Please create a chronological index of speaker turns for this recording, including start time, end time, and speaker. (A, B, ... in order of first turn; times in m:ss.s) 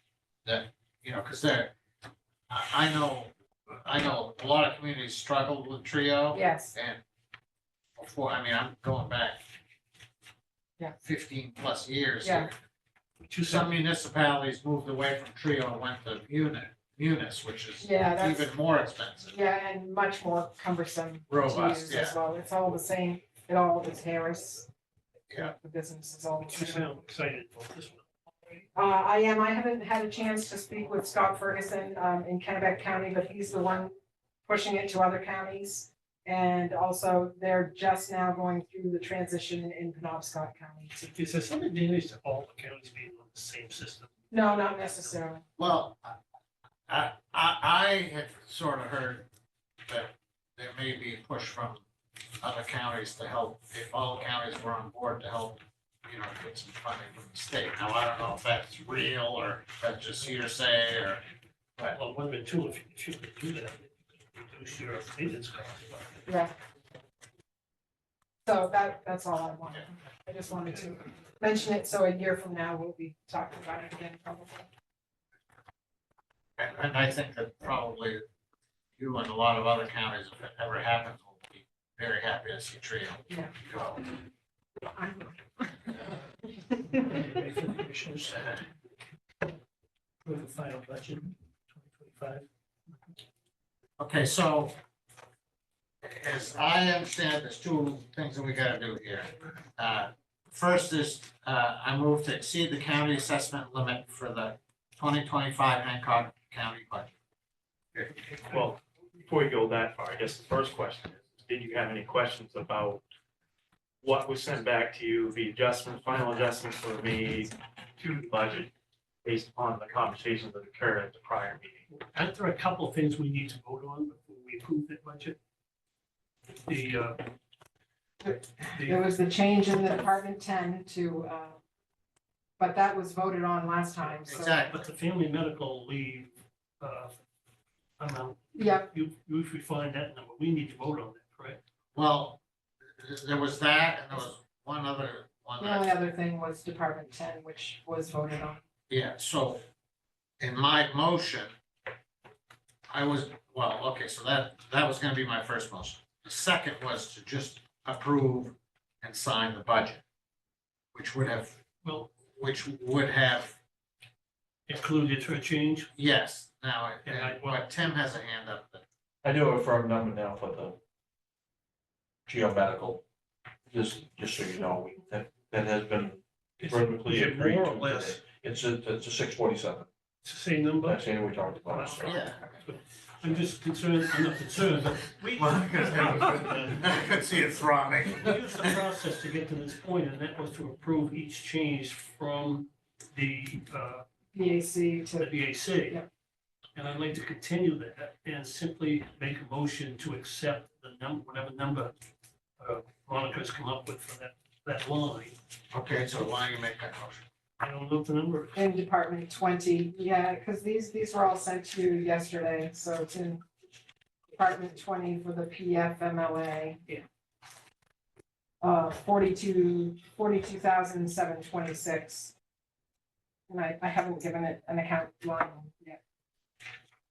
0:00.4-0:01.7 A
0:02.5-0:07.0 A
0:06.3-0:06.7 B
0:08.0-0:09.4 A
0:11.0-0:12.5 A
0:12.2-0:12.5 B
0:13.3-0:13.8 C
0:13.4-0:19.4 A
0:17.8-0:18.5 B
0:19.3-0:24.7 B
0:21.3-0:22.2 A
0:25.3-0:27.0 B
0:26.4-0:28.0 C
0:28.7-0:33.9 B
0:34.4-0:41.1 B
0:41.0-0:44.1 C
0:44.3-0:45.4 B
0:45.6-0:46.2 A
0:46.9-0:49.3 A
0:49.9-0:51.8 A
0:52.4-1:01.2 A
1:01.9-1:06.3 C
1:06.2-1:06.5 B
1:08.4-1:14.7 B
1:16.6-1:18.2 A
1:19.0-1:24.0 A
1:24.9-1:25.4 B
1:26.9-1:28.6 C
1:30.2-1:32.4 C
1:34.0-1:34.8 A
1:36.0-1:47.1 A
1:48.0-1:53.0 D
1:54.0-1:58.7 D
1:59.2-2:01.8 D
2:01.9-2:05.4 C
2:06.6-2:07.2 C
2:08.2-2:11.6 B
2:08.7-2:09.1 C
2:12.6-2:14.6 B
2:14.2-2:14.8 A
2:14.4-2:17.1 C
2:18.0-2:21.6 C
2:18.5-2:18.9 B
2:21.9-2:22.4 A
2:23.0-2:25.9 A
2:25.6-2:28.6 B
2:28.9-2:29.6 A
2:30.4-2:31.5 A
2:32.9-2:40.0 A
2:40.9-2:41.6 A
2:41.8-2:42.1 C
2:42.4-2:43.6 A
2:44.7-2:45.9 C
2:45.9-2:48.8 A
2:47.0-2:47.8 C
2:49.2-2:50.8 E
2:52.3-2:53.0 E
2:53.7-2:59.9 E
2:56.6-2:58.2 C
3:00.2-3:01.0 C
3:00.8-3:02.3 E
3:01.7-3:06.8 C
3:02.0-3:02.5 A
3:05.4-3:08.7 A
3:08.2-3:14.0 C
3:14.3-3:16.0 B
3:15.2-3:16.0 C
3:16.7-3:21.9 C
3:22.6-3:25.4 C
3:25.7-3:27.2 A
3:27.6-3:28.7 C
3:28.6-3:33.4 B
3:34.4-3:36.8 B
3:38.6-3:42.3 B
3:43.5-3:46.0 B